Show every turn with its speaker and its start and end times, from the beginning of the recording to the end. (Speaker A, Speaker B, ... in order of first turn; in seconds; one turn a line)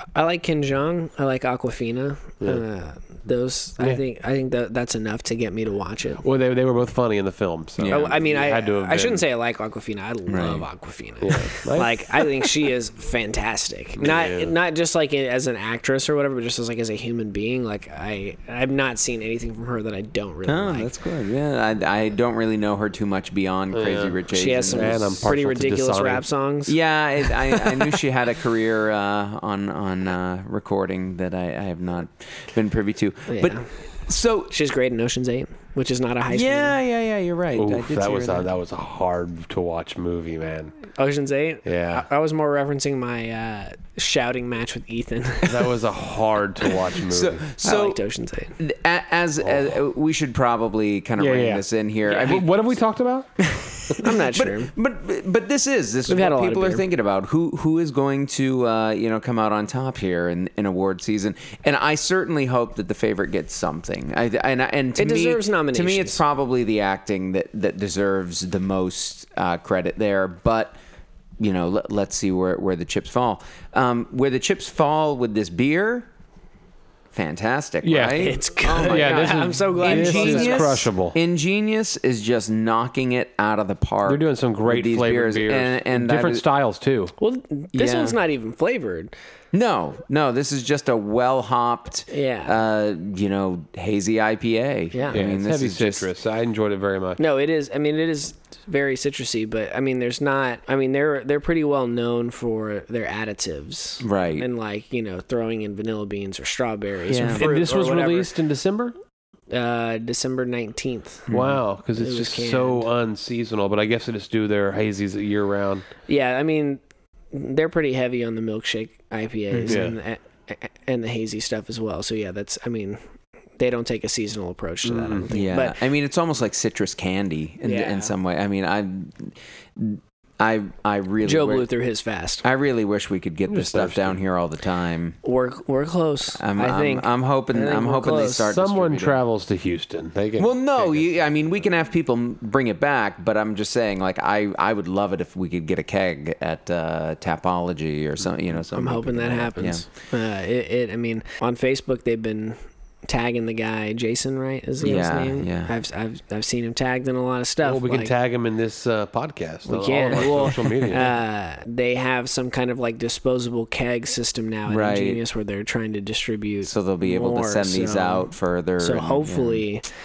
Speaker A: 0.1-6.2
Speaker B: 6.2-9.2
Speaker C: 7.8-8.2
Speaker A: 7.8-20.9
Speaker C: 10.3-10.6
Speaker B: 11.2-12.4
Speaker B: 14.0-14.5
Speaker C: 20.4-25.3
Speaker B: 23.7-26.2
Speaker A: 24.3-27.9
Speaker C: 26.7-34.5
Speaker A: 33.3-33.7
Speaker A: 34.5-36.8
Speaker C: 36.3-38.5
Speaker B: 37.5-40.8
Speaker A: 41.0-45.7
Speaker B: 41.6-42.0
Speaker B: 45.4-47.5
Speaker C: 47.0-48.0
Speaker A: 47.6-48.6
Speaker C: 48.6-52.5
Speaker B: 51.2-51.6
Speaker A: 52.1-52.4
Speaker B: 52.2-53.3
Speaker C: 53.4-70.8
Speaker A: 54.0-54.7
Speaker A: 56.1-56.8
Speaker A: 65.0-66.2
Speaker C: 71.4-76.1
Speaker C: 77.1-86.4
Speaker B: 77.8-81.2
Speaker A: 78.2-80.8
Speaker B: 84.1-87.1
Speaker A: 87.2-89.1
Speaker C: 87.7-88.2
Speaker C: 89.5-96.1
Speaker A: 92.1-92.5
Speaker A: 94.9-95.2
Speaker B: 95.1-97.2
Speaker A: 97.2-108.3
Speaker C: 104.0-104.5
Speaker C: 107.1-107.5
Speaker B: 107.3-108.9
Speaker A: 109.5-111.3
Speaker C: 111.3-111.6
Speaker B: 111.3-115.9
Speaker A: 112.0-112.9
Speaker A: 116.1-116.8
Speaker A: 117.3-123.0
Speaker C: 119.5-119.9
Speaker B: 119.7-120.0
Speaker A: 123.6-125.8
Speaker B: 124.8-125.2
Speaker C: 125.3-131.7
Speaker A: 127.6-128.1
Speaker A: 131.2-132.4
Speaker C: 132.4-135.2
Speaker B: 133.5-134.2
Speaker A: 135.2-138.5
Speaker C: 136.4-139.2
Speaker B: 138.4-141.2
Speaker C: 140.4-149.8
Speaker A: 148.7-158.1
Speaker C: 154.8-155.7
Speaker B: 157.6-161.1
Speaker A: 159.7-169.9
Speaker C: 160.1-161.0
Speaker C: 164.7-165.2
Speaker C: 166.6-169.6